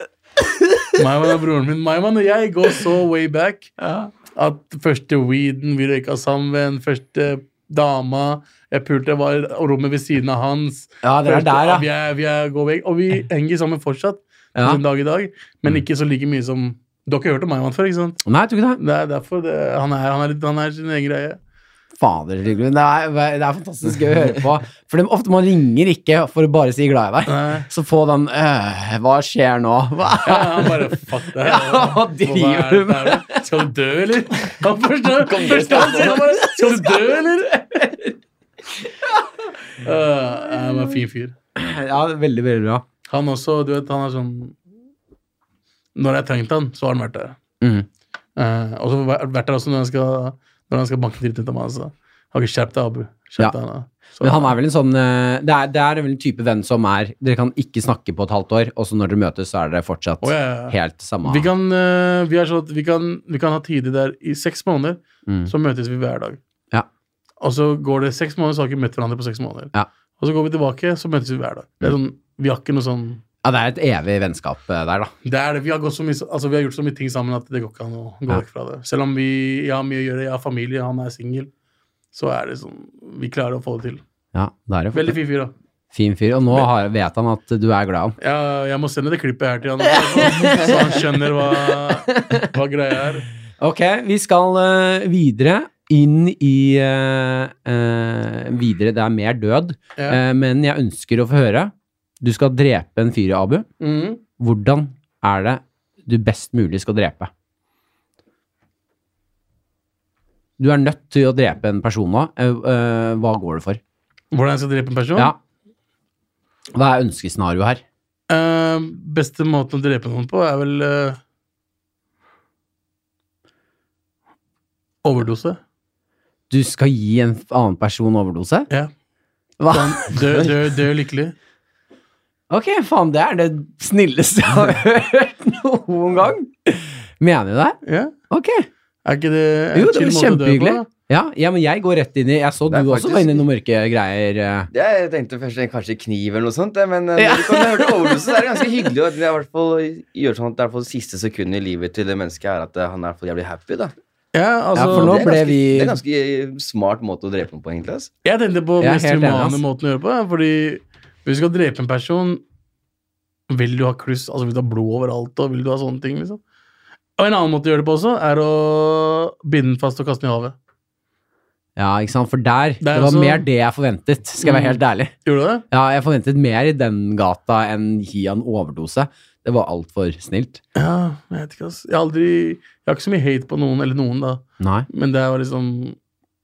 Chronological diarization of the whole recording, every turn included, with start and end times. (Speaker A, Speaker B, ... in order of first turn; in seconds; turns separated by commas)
Speaker A: 0.4-0.9, Speaker B: 1.0-3.7, Speaker A: 3.8-4.1, Speaker B: 4.3-18.2, Speaker A: 11.0-11.9, Speaker A: 14.6-14.8, Speaker A: 18.2-18.8, Speaker B: 18.8-21.4, Speaker A: 22.0-33.5, Speaker B: 27.3-27.7, Speaker B: 30.2-37.6, Speaker A: 35.3-38.2, Speaker C: 35.4-36.1, Speaker A: 38.7-39.5, Speaker B: 39.8-41.4, Speaker A: 40.5-41.0, Speaker A: 41.5-42.9, Speaker B: 43.1-44.6, Speaker B: 46.0-47.4, Speaker A: 47.6-47.9, Speaker B: 48.4-54.6, Speaker A: 54.2-61.5, Speaker B: 60.2-66.4, Speaker A: 65.3-65.5, Speaker B: 67.4-73.2, Speaker A: 73.4-75.1, Speaker B: 75.2-81.5, Speaker B: 82.1-84.0, Speaker A: 84.3-85.2, Speaker B: 84.9-85.5, Speaker A: 85.9-88.2, Speaker B: 88.2-93.3, Speaker A: 89.8-92.5, Speaker A: 93.6-103.7, Speaker B: 103.8-104.2, Speaker A: 104.4-107.3, Speaker A: 110.6-113.8, Speaker B: 114.3-115.3, Speaker A: 116.7-117.8, Speaker B: 118.3-121.2, Speaker B: 125.0-125.6, Speaker A: 126.5-128.7, Speaker A: 129.6-130.5, Speaker B: 129.7-131.3, Speaker A: 132.5-137.8, Speaker B: 137.8-138.1, Speaker A: 138.3-138.7, Speaker B: 139.1-140.9, Speaker A: 139.7-144.7, Speaker C: 142.7-143.4, Speaker C: 144.7-153.9, Speaker A: 147.2-148.9, Speaker B: 154.3-155.5, Speaker A: 154.8-156.0, Speaker C: 154.8-158.1, Speaker B: 158.2-162.4, Speaker A: 158.8-159.6, Speaker B: 163.5-166.4, Speaker B: 167.2-170.6, Speaker A: 171.8-175.1, Speaker B: 172.8-173.5, Speaker B: 174.4-175.6, Speaker A: 175.7-180.6, Speaker B: 180.8-186.0, Speaker A: 184.6-184.9